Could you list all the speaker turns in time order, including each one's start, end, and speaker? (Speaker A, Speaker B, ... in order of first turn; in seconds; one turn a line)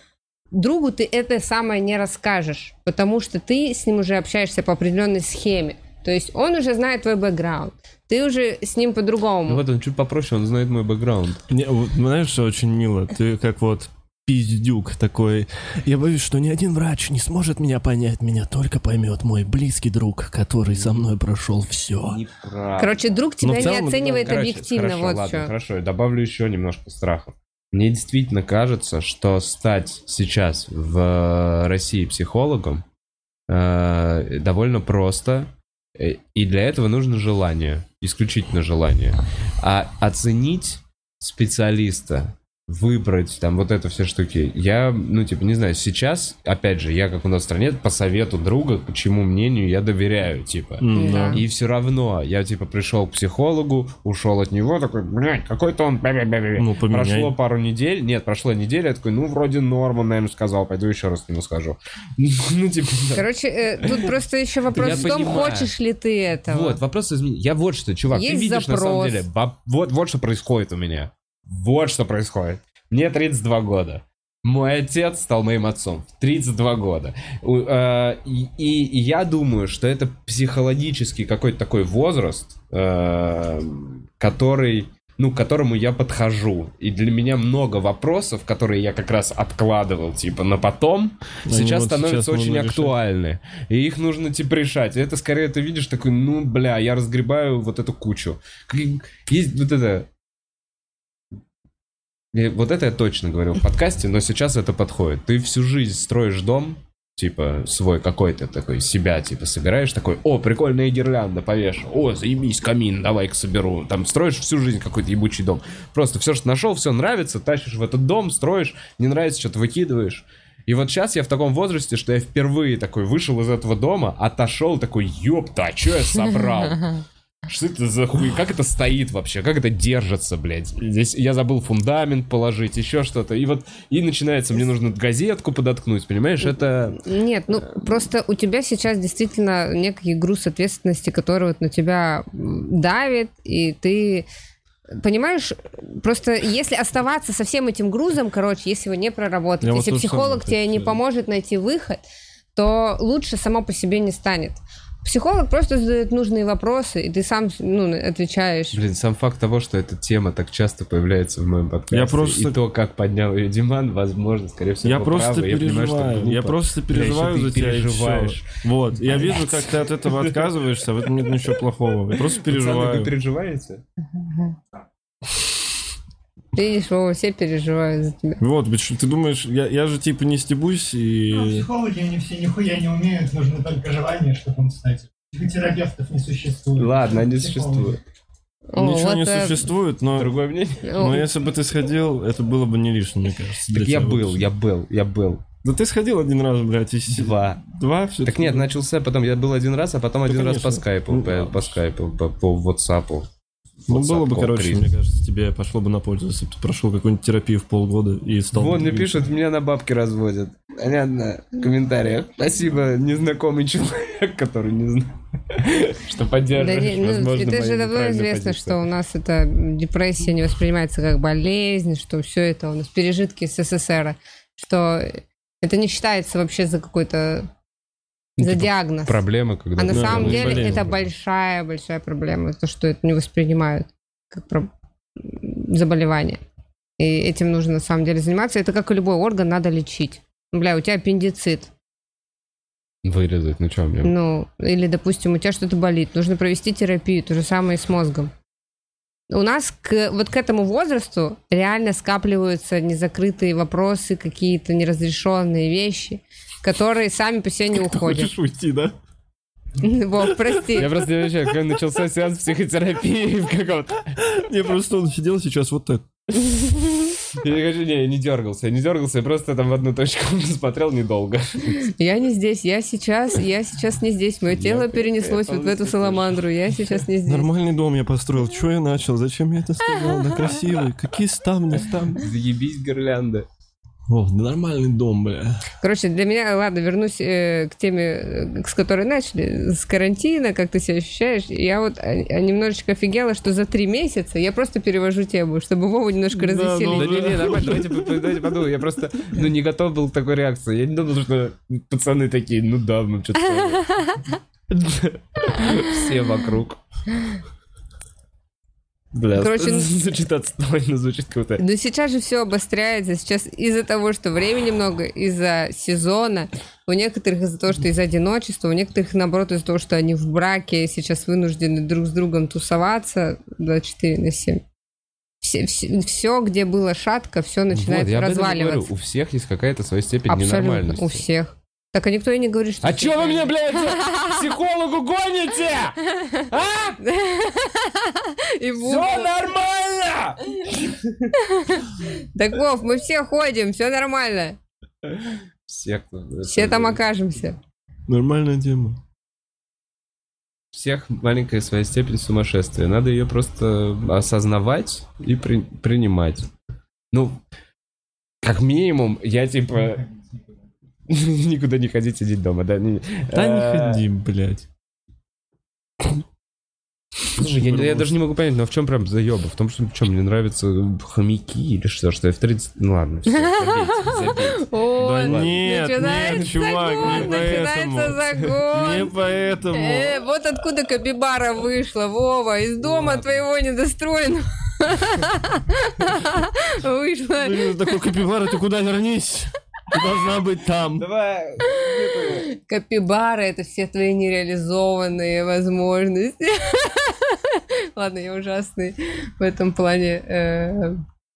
Speaker A: 0.5-9.6
Speaker B: 9.5-11.4
Speaker C: 11.5-22.2
Speaker B: 22.0-32.8
Speaker A: 22.8-25.5
Speaker C: 23.4-24.3
Speaker B: 33.5-63.2
Speaker C: 50.8-51.4
Speaker A: 51.0-51.4
Speaker C: 56.6-57.3
Speaker A: 63.1-66.8
Speaker B: 63.8-64.1
Speaker B: 64.7-65.7
Speaker B: 66.5-100.1
Speaker A: 68.1-69.2
Speaker C: 91.5-93.0
Speaker B: 102.3-137.0
Speaker A: 137.0-144.3
Speaker A: 145.0-152.0
Speaker C: 149.6-151.0
Speaker A: 152.6-158.8
Speaker B: 158.7-170.5
Speaker C: 161.9-162.6
Speaker C: 164.8-173.1
Speaker B: 172.2-173.8
Speaker A: 176.6-178.4
Speaker C: 178.4-181.7
Speaker D: 181.3-188.0
Speaker B: 186.8-188.0
Speaker A: 188.7-189.7
Speaker C: 188.8-190.3
Speaker B: 190.2-190.9
Speaker A: 190.8-191.3
Speaker C: 190.9-194.5
Speaker B: 193.7-195.4
Speaker C: 195.6-198.7
Speaker B: 197.1-197.6
Speaker B: 198.2-203.3
Speaker C: 200.3-201.8
Speaker B: 203.9-204.9
Speaker C: 203.9-209.3
Speaker B: 208.5-218.8
Speaker A: 216.6-227.5
Speaker B: 228.4-231.0
Speaker A: 228.4-229.2
Speaker A: 229.8-236.4
Speaker C: 229.9-230.9
Speaker A: 237.0-241.7
Speaker B: 243.0-244.1
Speaker A: 244.0-248.3
Speaker A: 249.3-258.3
Speaker C: 257.7-258.9
Speaker A: 259.8-260.9
Speaker C: 260.2-260.7
Speaker B: 260.7-264.2
Speaker C: 264.2-266.1
Speaker B: 267.3-271.9
Speaker A: 271.7-277.5
Speaker B: 274.5-276.4
Speaker C: 277.3-282.3
Speaker B: 282.2-283.5
Speaker C: 284.1-285.6
Speaker A: 285.8-297.4
Speaker C: 296.3-298.3
Speaker B: 296.9-304.0
Speaker A: 303.7-304.4
Speaker B: 304.7-306.8
Speaker B: 309.1-311.6
Speaker A: 309.4-310.0
Speaker A: 311.6-324.6
Speaker A: 325.4-328.9
Speaker B: 327.7-331.2
Speaker A: 330.3-334.4
Speaker B: 332.8-337.0
Speaker A: 337.0-339.3
Speaker B: 338.8-341.3
Speaker A: 341.4-344.6
Speaker B: 345.7-347.0
Speaker A: 346.4-347.6
Speaker C: 348.1-349.0
Speaker B: 350.7-356.5
Speaker B: 357.1-357.4
Speaker B: 358.4-360.0
Speaker D: 359.7-360.7
Speaker B: 361.1-364.0
Speaker C: 363.3-364.7
Speaker C: 367.3-368.1
Speaker B: 367.3-374.7
Speaker A: 373.3-379.1
Speaker C: 375.0-380.2
Speaker B: 375.2-377.5
Speaker A: 379.7-387.8
Speaker B: 382.8-383.4
Speaker C: 387.4-391.1
Speaker B: 391.0-392.5
Speaker A: 392.4-401.0